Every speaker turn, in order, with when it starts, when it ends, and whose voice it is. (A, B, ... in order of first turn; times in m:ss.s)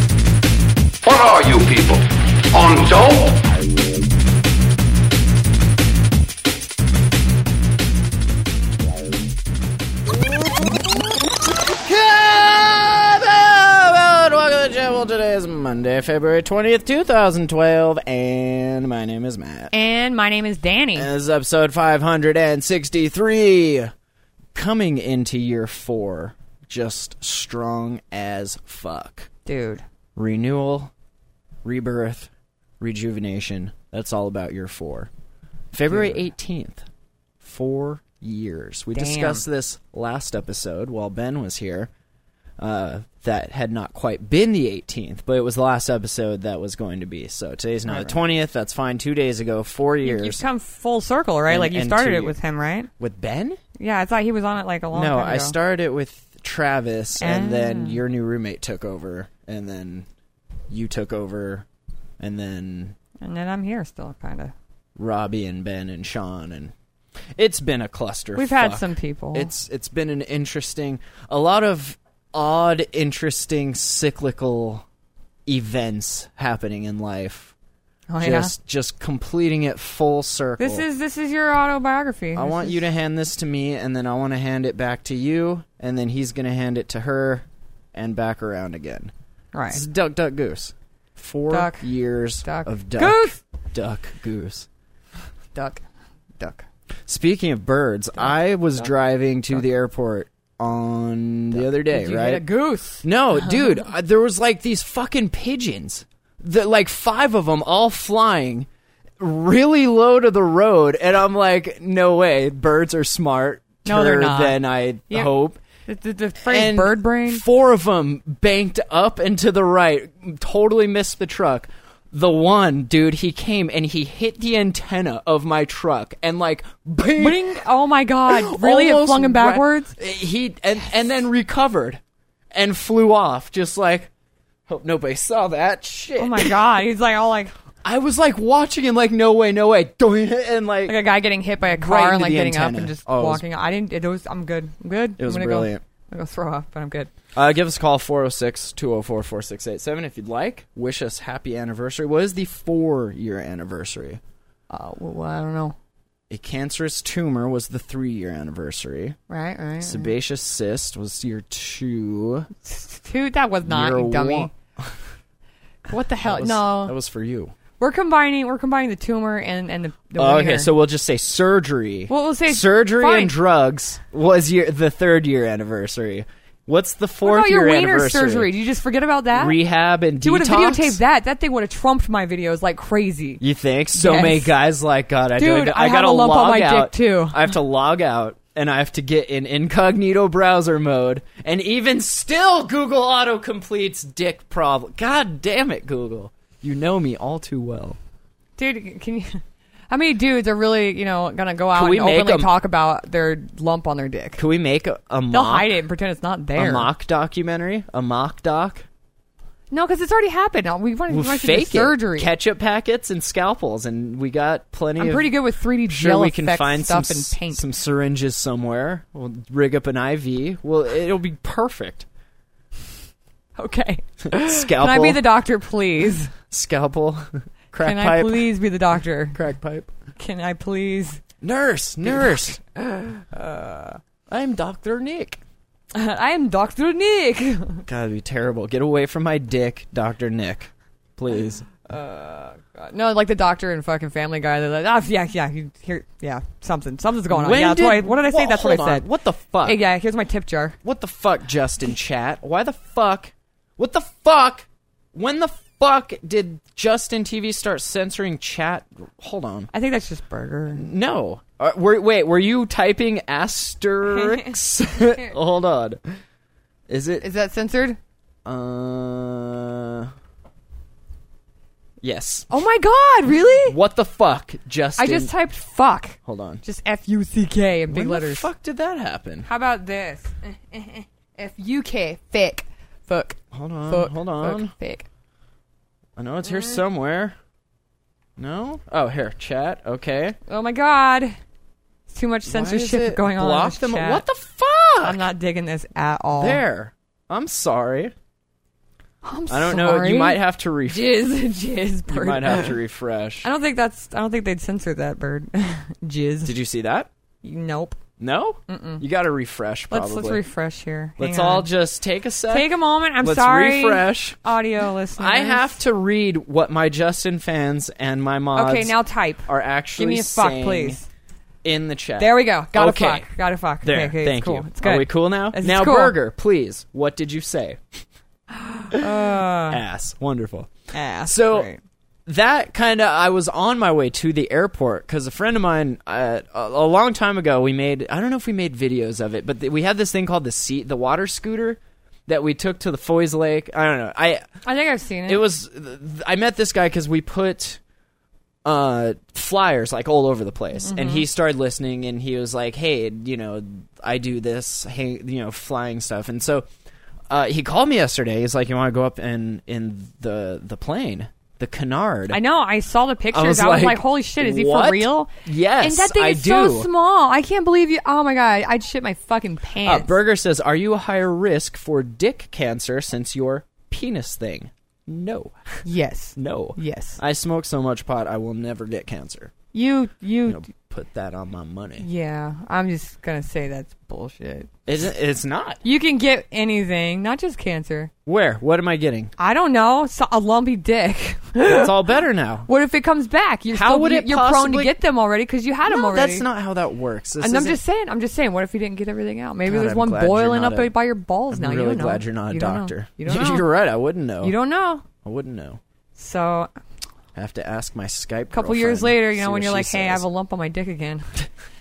0:01.0-0:03.4 A
0:11.7-0:19.7 B
0:19.7-0:21.1 C
0:21.0-0:23.9 B
0:24.6-0:29.3 B
0:29.5-0:29.8 C
0:30.2-0:30.9 B
0:31.6-0:35.1 B
0:35.7-0:36.8 B
0:35.9-0:36.2 C
0:37.4-0:41.9 B
0:38.9-0:39.4 C
0:42.6-0:50.4 B
0:47.9-0:48.2 C
0:50.0-0:52.9 C
0:51.5-0:52.4 B
0:53.0-0:53.6 B
0:53.8-0:55.6 C
0:54.9-1:00.1 B
0:57.2-0:58.0 C
1:00.7-1:01.7 B
1:02.2-1:03.0 B
1:03.2-1:04.5 C
1:05.0-1:06.7 B
1:07.4-1:14.9 B
1:08.4-1:09.5 C
1:15.5-1:17.5 B
1:18.1-1:18.5 C
1:18.2-1:20.8 B
1:20.6-1:22.8 C
1:22.4-1:29.1 B
1:29.5-1:29.8 C
1:29.7-1:34.7 B
1:31.5-1:31.9 C
1:32.4-1:33.4 C
1:35.6-1:35.8 C
1:36.4-1:36.6 C
1:37.1-1:42.4 B
1:41.5-1:43.0 C
1:43.0-1:48.7 B
1:49.2-1:55.6 B
1:53.8-1:55.3 C
1:55.9-1:57.4 C
1:56.4-2:07.5 B
2:07.2-2:09.9 C
2:08.3-2:12.0 B
2:12.5-2:14.1 B
2:14.7-2:16.6 B
2:16.2-2:17.5 C
2:17.8-2:21.0 B
2:20.9-2:27.1 C
2:21.6-2:23.4 B
2:25.2-2:25.8 B
2:27.4-2:34.2 B
2:34.7-2:35.8 C
2:36.3-2:39.2 B
2:39.3-2:40.1 C
2:39.8-2:42.5 B
2:42.6-2:44.5 C
2:43.6-2:45.0 B
2:45.9-2:46.9 C
2:46.2-2:47.5 B
2:47.8-2:50.7 C
2:50.2-2:58.5 B
2:52.1-2:53.4 C
2:57.2-2:59.6 C
2:59.3-3:01.0 B
3:00.2-3:03.4 C
3:03.4-3:18.0 B
3:03.9-3:04.5 C
3:05.4-3:07.5 C
3:18.6-3:24.4 C
3:21.7-3:22.5 B
3:24.4-3:25.7 B
3:25.3-3:26.9 C
3:26.6-3:28.9 B
3:29.7-3:32.3 C
3:31.1-3:35.3 B
3:35.0-3:37.6 C
3:35.9-3:42.1 B
3:43.6-3:46.3 C
3:44.3-3:45.2 B
3:46.5-3:48.5 B
3:47.8-3:49.4 C
3:49.3-3:49.9 B
3:50.2-3:51.2 C
3:51.4-3:52.6 B
3:52.1-3:52.6 C
3:53.3-3:54.0 C
3:54.3-3:55.4 B
3:55.9-3:57.9 C
3:57.9-4:01.7 B
4:01.8-4:09.1 C
4:07.3-4:09.8 B
4:09.6-4:10.8 C
4:10.8-4:19.7 B
4:19.7-4:20.9 C
4:20.7-4:26.0 B
4:24.1-4:24.5 C
4:26.9-4:27.3 B
4:27.2-4:28.0 C
4:28.4-4:30.1 B
4:32.0-4:32.5 B
4:32.5-4:33.8 C
4:33.6-4:35.3 B
4:35.0-4:38.5 C
4:36.2-4:36.6 B
4:37.9-4:39.5 B
4:39.4-4:45.1 C
4:43.5-4:44.7 B
4:46.2-4:47.4 B
4:46.5-4:46.8 C
4:48.4-4:50.4 B
4:50.5-4:51.4 C
4:52.1-4:54.2 C
4:52.5-4:55.2 B
4:55.0-4:56.6 C
4:56.4-4:58.1 B
4:59.2-5:02.8 C
4:59.5-5:01.2 B
5:02.1-5:03.5 B
5:03.4-5:06.6 C
5:06.4-5:07.1 B
5:07.4-5:08.0 C
5:08.2-5:10.4 B
5:08.7-5:09.0 C
5:09.9-5:11.7 C
5:11.2-5:14.4 B
5:12.5-5:15.8 C
5:15.2-5:19.0 B
5:18.5-5:21.1 C
5:19.5-5:21.0 B
5:21.6-5:23.3 B
5:22.2-5:26.2 C
5:23.8-5:28.0 B
5:28.6-5:29.8 C
5:28.9-5:31.7 B
5:30.9-5:31.8 C
5:32.3-5:44.5 B
5:44.6-5:45.4 C
5:45.3-5:47.8 B
5:48.6-5:56.7 B
5:50.8-5:51.3 C
5:57.3-6:02.4 B
6:02.3-6:10.2 C
6:03.3-6:06.9 B
6:09.8-6:15.8 B
6:15.8-6:17.2 C
6:16.4-6:19.5 B
6:19.7-6:20.7 C
6:20.5-6:22.1 B
6:22.0-6:24.7 C
6:24.9-6:25.8 B
6:25.8-6:28.1 C
6:28.3-6:29.3 B
6:29.4-6:31.9 C
6:31.7-6:32.7 B
6:32.7-6:36.5 C
6:33.7-6:35.0 B
6:35.9-6:37.8 B
6:37.4-6:43.7 C
6:39.6-6:41.0 B
6:41.5-6:44.6 B
6:44.4-6:45.0 C
6:45.1-6:45.8 B
6:46.2-6:46.7 C
6:47.4-6:50.3 B
6:48.5-6:51.5 C